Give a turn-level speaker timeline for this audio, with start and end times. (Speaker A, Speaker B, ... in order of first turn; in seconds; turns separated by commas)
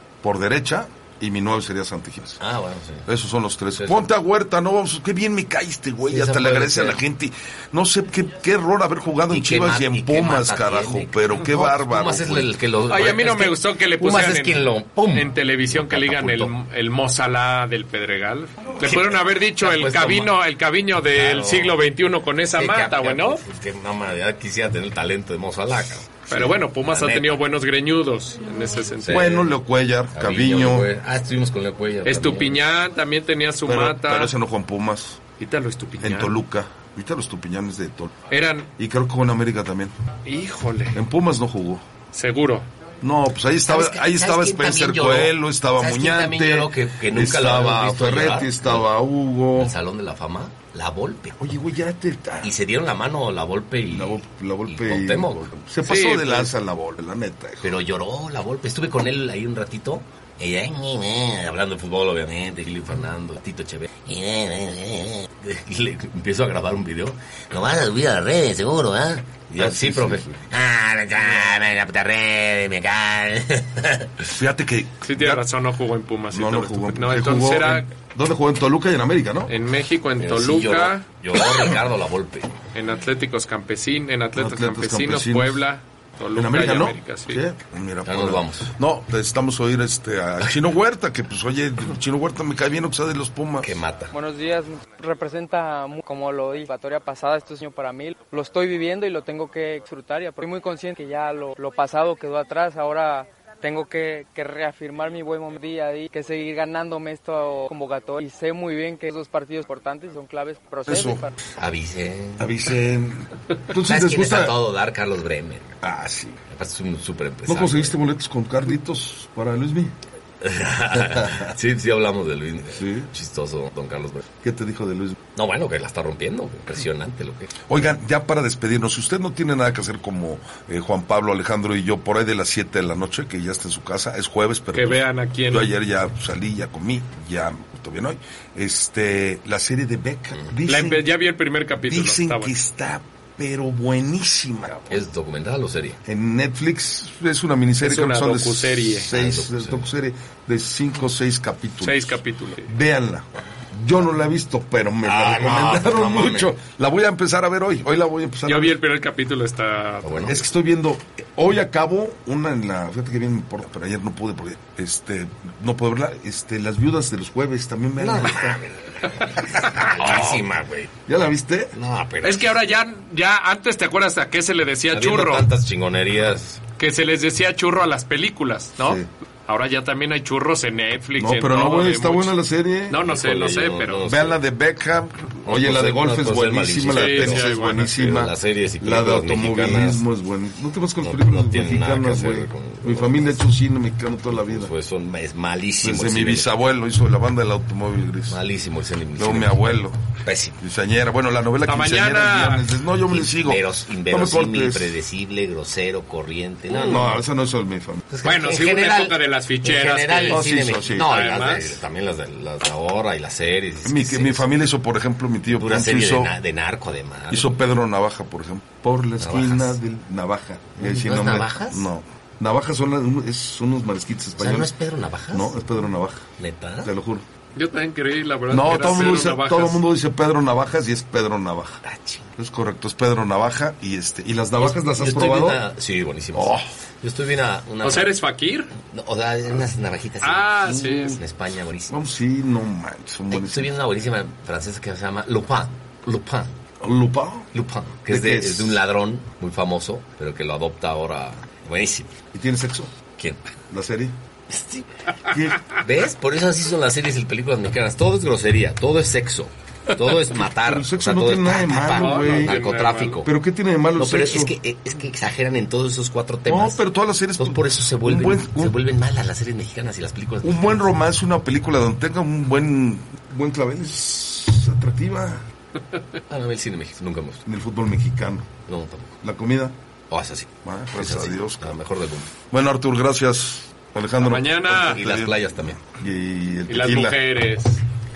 Speaker A: 0.2-2.4, Speaker B: 2.4-3.1, Speaker A: 3.1-12.5, Speaker B: 3.7-4.1, Speaker B: 6.1-7.0, Speaker B: 9.3-16.5, Speaker C: 12.9-23.4, Speaker B: 18.8-20.3, Speaker B: 21.1-21.8, Speaker B: 22.5-27.4, Speaker C: 26.3-29.4, Speaker B: 29.0-29.4, Speaker A: 29.1-30.9, Speaker B: 30.1-32.6, Speaker C: 32.0-34.3, Speaker A: 33.6-35.2, Speaker C: 35.4-36.3, Speaker A: 36.0-38.1, Speaker C: 38.3-38.7, Speaker A: 38.8-39.9, Speaker C: 40.2-41.0, Speaker A: 40.9-41.8, Speaker C: 42.1-42.7, Speaker A: 43.0-49.7, Speaker B: 43.6-48.9, Speaker B: 49.5-51.3, Speaker A: 51.4-52.5, Speaker B: 52.4-55.5, Speaker A: 53.9-57.7, Speaker C: 55.8-56.5, Speaker B: 57.6-74.3, Speaker A: 69.5-70.4, Speaker A: 74.3-75.5, Speaker C: 75.0-77.9, Speaker A: 76.3-79.5, Speaker C: 79.5-81.0, Speaker B: 80.2-82.5, Speaker C: 82.7-87.4, Speaker A: 84.3-85.6, Speaker A: 86.3-93.8, Speaker B: 88.0-88.7, Speaker B: 93.6-94.1, Speaker D: 94.1-111.3, Speaker A: 110.8-111.2, Speaker B: 111.5-112.5, Speaker A: 112.4-114.6, Speaker B: 113.8-115.8, Speaker A: 115.8-116.4, Speaker B: 116.5-118.0, Speaker A: 117.5-119.9, Speaker B: 120.4-124.2, Speaker A: 121.0-121.5, Speaker A: 122.7-123.1, Speaker A: 124.4-125.2, Speaker B: 125.3-127.5, Speaker A: 127.7-141.1, Speaker C: 134.7-135.7, Speaker C: 140.7-142.6, Speaker A: 141.8-145.1, Speaker B: 144.9-146.0, Speaker A: 146.0-158.8, Speaker C: 147.8-149.1, Speaker B: 149.1-149.9, Speaker C: 151.8-152.7, Speaker B: 155.0-156.5, Speaker C: 158.4-160.4, Speaker B: 160.0-160.4, Speaker A: 160.3-168.6, Speaker B: 168.0-170.9, Speaker A: 171.1-171.7, Speaker B: 171.7-172.5, Speaker C: 172.2-175.5, Speaker B: 174.9-176.6, Speaker C: 176.8-182.3, Speaker A: 178.8-179.1, Speaker A: 181.2-183.0, Speaker C: 182.9-184.1, Speaker B: 183.0-184.4, Speaker A: 184.0-194.7, Speaker B: 185.4-190.0, Speaker C: 186.9-188.0, Speaker B: 191.0-193.5, Speaker B: 194.3-196.5, Speaker A: 195.8-198.4, Speaker B: 198.3-199.6, Speaker A: 199.2-200.0, Speaker B: 200.2-200.6, Speaker A: 200.6-204.9, Speaker C: 201.6-202.7, Speaker B: 203.1-207.1, Speaker A: 206.8-208.0, Speaker B: 208.1-214.4, Speaker C: 208.2-211.8, Speaker A: 210.3-211.1, Speaker A: 213.8-216.3, Speaker B: 215.5-217.6, Speaker A: 217.3-224.7, Speaker B: 219.2-219.8, Speaker B: 220.8-221.9, Speaker B: 224.3-225.6, Speaker A: 225.3-226.2, Speaker B: 226.4-226.9, Speaker A: 226.8-227.2, Speaker C: 227.6-229.8, Speaker A: 228.5-231.8, Speaker B: 231.8-232.3, Speaker A: 232.4-235.6, Speaker B: 234.6-238.1, Speaker A: 236.3-236.7, Speaker C: 237.8-238.7, Speaker B: 238.9-240.6, Speaker C: 240.2-241.2, Speaker A: 240.6-241.2, Speaker B: 241.2-242.0, Speaker A: 241.9-243.7, Speaker B: 243.3-246.5, Speaker A: 246.8-247.5, Speaker B: 247.5-252.1, Speaker A: 248.1-248.8, Speaker A: 252.3-252.9, Speaker A: 253.7-254.1, Speaker B: 254.5-254.9, Speaker A: 255.3-255.6, Speaker B: 255.6-263.3, Speaker A: 260.4-262.6, Speaker C: 261.9-263.2, Speaker A: 263.2-264.5, Speaker B: 263.9-266.8, Speaker A: 266.4-268.8, Speaker B: 267.4-270.9, Speaker A: 270.4-275.5, Speaker B: 276.3-277.4, Speaker A: 277.4-278.5, Speaker B: 278.7-279.2, Speaker A: 279.2-279.8, Speaker B: 280.1-282.3, Speaker A: 280.6-281.8, Speaker A: 282.5-287.2, Speaker C: 284.2-285.0, Speaker B: 284.8-285.8, Speaker C: 286.7-287.8